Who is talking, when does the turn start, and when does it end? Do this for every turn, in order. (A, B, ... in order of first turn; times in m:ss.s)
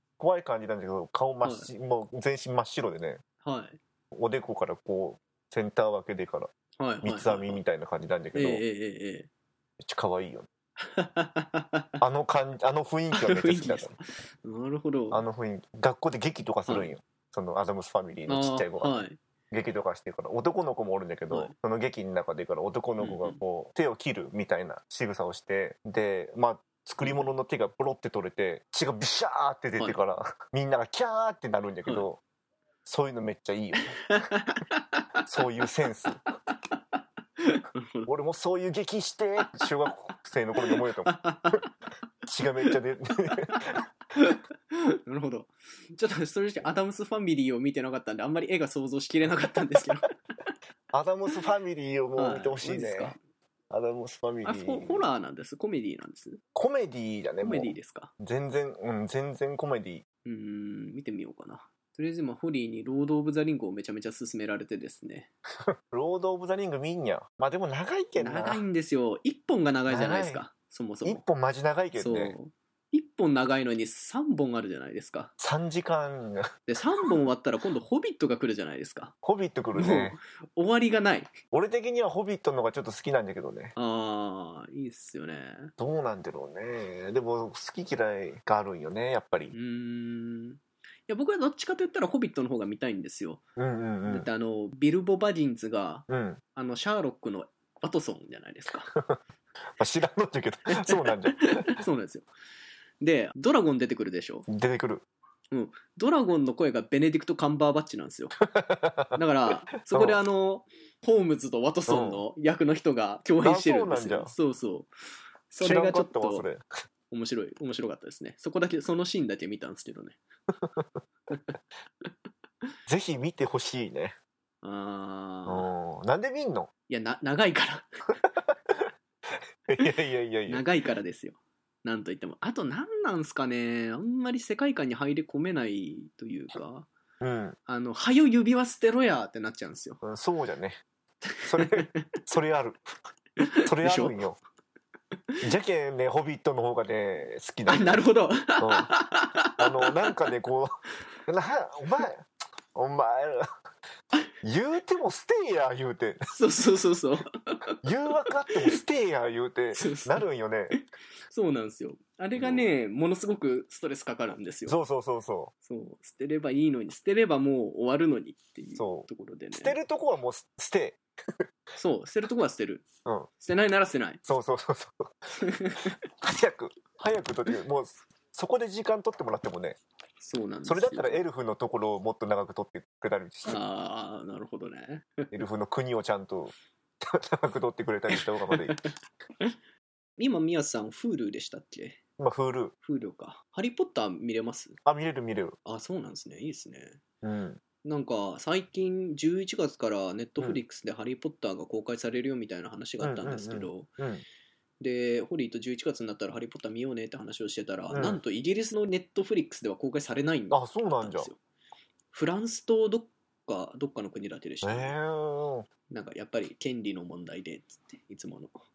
0:00.2-0:03.2 A
0:03.4-0:03.8 B
0:04.1-0:06.5 A
0:06.8-0:07.6 B
0:07.0-0:08.6 A
0:08.3-0:09.3 B
0:09.8-0:10.5 A
0:10.8-0:11.9 B
0:12.0-0:14.0 A
0:13.1-0:15.2 B
0:15.1-0:19.0 A
0:16.7-0:16.9 B
0:18.3-0:19.2 B
0:19.5-0:32.2 A
0:23.0-0:23.4 B
0:32.9-0:34.0 A
0:34.1-0:35.0 B
0:35.3-0:36.2 A
0:37.4-0:38.1 B
0:38.1-0:41.6 A
0:40.7-0:41.7 B
0:42.3-0:43.8 A
0:44.2-0:50.1 B
0:50.9-0:53.2 A
0:52.2-0:53.2 B
0:53.7-0:55.0 A
0:54.4-0:56.4 B
0:56.6-1:00.0 A
0:57.4-0:58.1 B
1:00.2-1:05.3 B
1:05.7-1:08.6 A
1:08.2-1:11.2 B
1:09.9-1:10.4 A
1:11.0-1:12.3 A
1:12.0-1:15.3 B
1:15.4-1:16.5 A
1:16.7-1:19.1 B
1:19.2-1:20.2 A
1:19.8-1:21.3 B
1:21.5-1:23.7 A
1:23.8-1:25.7 B
1:25.8-1:29.5 A
1:29.5-1:33.4 B
1:33.6-1:34.3 A
1:34.1-1:38.9 B
1:36.1-1:36.4 A
1:39.8-1:41.7 A
1:40.7-1:42.3 B
1:43.0-1:44.5 B
1:44.5-1:45.0 A
1:45.5-1:48.3 B
1:48.5-1:49.2 A
1:49.2-1:54.9 B
1:49.9-1:50.2 A
1:51.9-1:52.2 A
1:53.4-1:54.3 A
1:55.5-1:56.5 B
1:55.6-1:56.7 A
1:57.1-2:00.2 B
2:02.9-2:04.2 A
2:04.6-2:05.7 B
2:05.5-2:06.7 A
2:06.9-2:07.9 B
2:09.7-2:10.6 A
2:10.5-2:16.9 B
2:17.2-2:17.6 A
2:17.7-2:20.0 B
2:20.0-2:20.8 A
2:21.4-2:22.8 A
2:21.5-2:21.9 B
2:23.4-2:24.2 B
2:23.6-2:24.4 A
2:25.4-2:28.0 A
2:27.7-2:30.0 B
2:28.6-2:28.9 A
2:29.6-2:33.5 A
2:34.4-2:36.3 A
2:36.3-2:37.7 B
2:37.8-2:40.8 A
2:39.7-2:40.2 B
2:40.7-2:44.8 B
2:42.4-2:42.7 A
2:44.7-2:45.5 A
2:45.6-2:49.8 B
2:48.8-2:51.4 A
2:51.8-2:52.9 B
2:53.4-2:54.2 B
2:54.2-2:55.1 A
2:55.4-2:56.0 B
2:56.2-2:59.8 A
3:00.2-3:01.2 B
3:00.7-3:03.6 A
3:03.5-3:05.3 B
3:05.3-3:08.8 A
3:10.2-3:12.0 B
3:12.2-3:12.7 A
3:12.8-3:14.8 B
3:14.8-3:15.6 A
3:15.6-3:17.0 B
3:17.2-3:17.6 A
3:17.8-3:23.9 B
3:23.0-3:24.2 A
3:24.8-3:31.4 B
3:27.9-3:28.2 A
3:30.5-3:31.3 A
3:32.1-3:35.0 B
3:34.6-3:35.7 A
3:35.9-3:38.6 B